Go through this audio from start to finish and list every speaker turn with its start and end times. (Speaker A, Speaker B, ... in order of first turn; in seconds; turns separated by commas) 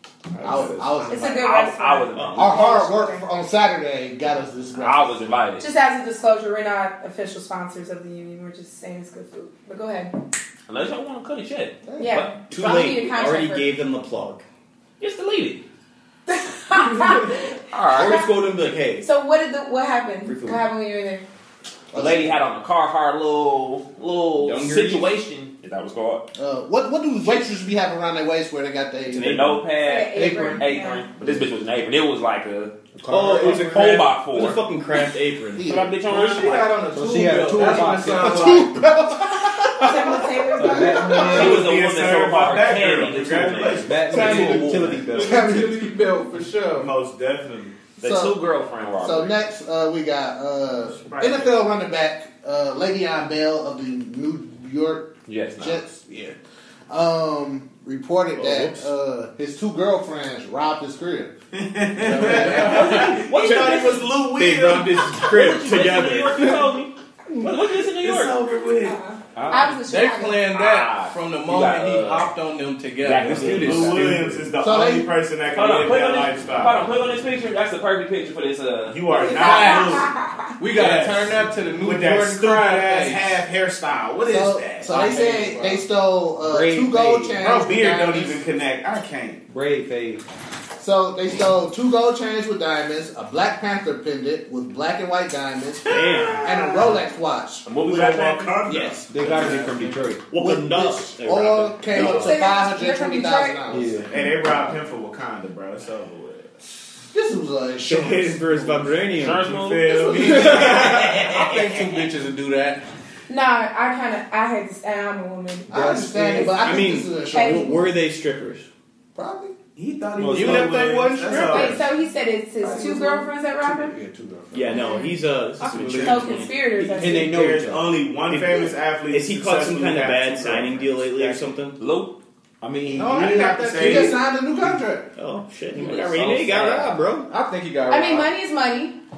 Speaker A: 0.4-1.0, Speaker B: 0.4-1.4, Speaker C: 0.5-2.6, Speaker D: 1.1-3.2, Speaker E: 2.1-2.7, Speaker B: 2.4-5.3, Speaker C: 4.8-5.6, Speaker D: 5.6-10.1, Speaker C: 10.7-12.3, Speaker B: 11.8-12.2, Speaker D: 12.0-13.8, Speaker E: 12.5-14.4, Speaker C: 15.0-15.6, Speaker D: 16.3-17.4, Speaker E: 16.9-17.3, Speaker C: 17.7-18.2, Speaker E: 17.9-19.1, Speaker D: 18.0-18.2, Speaker D: 19.0-21.3, Speaker E: 20.3-20.6, Speaker B: 21.9-22.4, Speaker C: 21.9-26.3, Speaker E: 24.4-25.1, Speaker B: 26.4-29.5, Speaker E: 29.1-29.7, Speaker C: 29.2-32.7, Speaker D: 29.8-31.1, Speaker B: 30.2-30.5, Speaker F: 33.0-33.7, Speaker E: 33.1-35.8, Speaker C: 33.4-34.6, Speaker B: 35.6-35.9, Speaker C: 35.6-36.7, Speaker G: 36.0-38.7, Speaker F: 36.9-38.8, Speaker B: 38.2-41.6, Speaker D: 39.8-41.5, Speaker F: 40.5-41.7, Speaker C: 41.2-44.4, Speaker A: 41.2-44.6, Speaker F: 43.8-45.7, Speaker G: 44.1-46.9, Speaker E: 44.1-45.1, Speaker B: 45.1-45.9, Speaker A: 46.8-47.8, Speaker C: 48.0-49.3, Speaker B: 48.0-48.4, Speaker B: 49.0-56.4, Speaker A: 51.0-51.5, Speaker C: 55.3-55.8, Speaker B: 56.9-61.4, Speaker E: 58.4-58.9, Speaker A: 61.5-65.2, Speaker G: 62.0-63.2, Speaker C: 62.4-64.2, Speaker E: 63.3-66.8, Speaker C: 65.2-68.4, Speaker A: 68.0-69.0, Speaker D: 68.8-70.5, Speaker F: 69.4-69.8, Speaker G: 69.9-74.0, Speaker C: 70.5-72.3, Speaker C: 73.0-74.1, Speaker E: 73.2-74.4, Speaker F: 73.3-73.7, Speaker A: 73.5-76.9, Speaker B: 74.6-75.1, Speaker C: 75.5-79.9, Speaker A: 78.9-80.1, Speaker D: 79.1-80.5, Speaker G: 80.6-83.4, Speaker A: 80.7-85.1, Speaker B: 84.3-88.4, Speaker G: 85.0-85.8, Speaker F: 86.4-87.5, Speaker A: 87.4-89.4, Speaker F: 89.5-90.2, Speaker B: 90.8-97.7, Speaker A: 95.8-97.0, Speaker E: 95.9-96.5, Speaker C: 97.7-98.9, Speaker A: 97.8-100.0, Speaker E: 98.7-99.0, Speaker F: 99.0-100.3, Speaker E: 100.3-102.5, Speaker B: 100.3-104.1, Speaker D: 101.9-103.6, Speaker F: 103.7-104.4, Speaker A: 104.1-106.5, Speaker B: 107.1-108.9, Speaker E: 107.8-109.5, Speaker C: 109.1-109.9, Speaker A: 109.4-111.5, Speaker B: 109.8-110.5, Speaker E: 110.2-111.1, Speaker C: 110.4-112.0, Speaker G: 111.0-112.8, Speaker D: 113.3-116.7, Speaker B: 115.7-117.9, Speaker F: 115.7-116.5, Speaker E: 116.5-118.7, Speaker D: 117.3-117.7, Speaker B: 119.2-119.5, Speaker A: 119.8-121.9, Speaker G: 120.2-121.8, Speaker F: 120.3-120.7, Speaker D: 121.5-123.9, Speaker F: 122.6-126.3, Speaker E: 124.5-127.3, Speaker D: 126.0-127.3, Speaker F: 127.0-128.0, Speaker A: 127.2-131.5, Speaker E: 128.3-131.8, Speaker C: 131.8-132.1, Speaker F: 132.6-133.7, Speaker G: 132.9-134.1, Speaker A: 133.0-134.2, Speaker B: 133.7-135.1, Speaker E: 135.2-137.3, Speaker C: 135.8-136.9, Speaker G: 137.3-138.3, Speaker D: 137.9-139.0